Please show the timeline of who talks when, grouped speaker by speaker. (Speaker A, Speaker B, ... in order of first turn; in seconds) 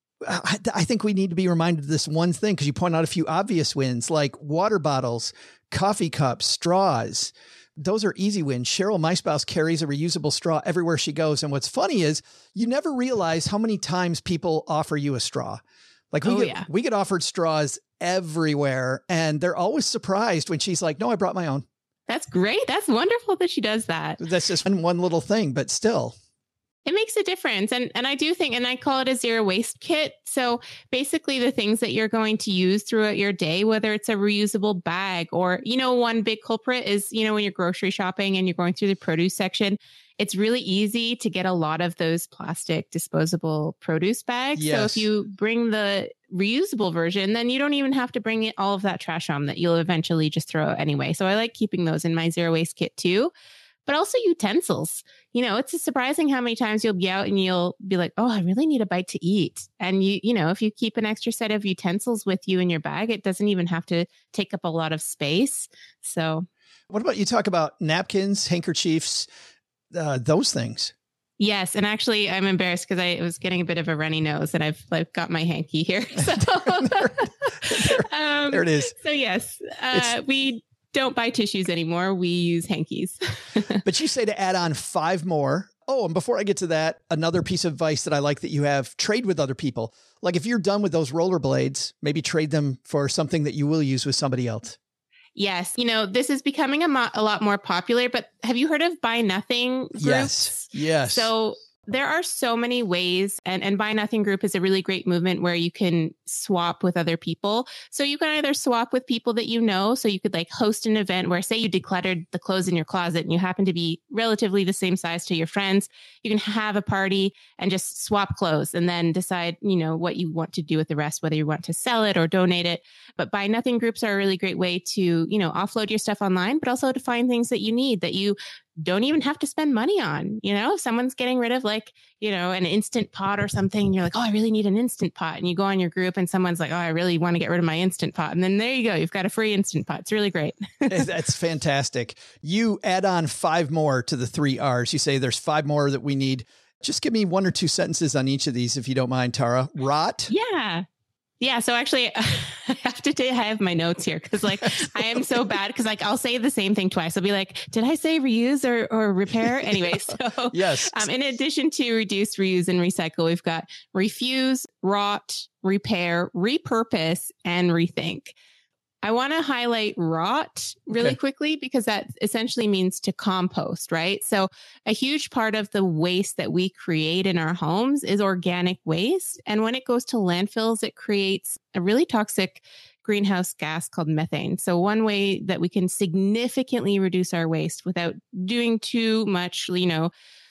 Speaker A: 0.2-15.6, 16.1-21.6, 24.2-26.1, 44.5-45.0, 66.9-69.3, 69.9-70.9, 76.3-78.9, 83.8-94.8, 100.0-101.3, 140.9-150.3, 154.5-155.4, 159.3-160.0, 160.5-161.1, 170.9-171.2
Speaker B: 16.2-16.7, 22.1-24.2, 26.9-53.3, 53.9-66.5, 71.4-83.8, 95.3-141.0, 150.3-150.8, 151.4-168.3, 169.0-190.1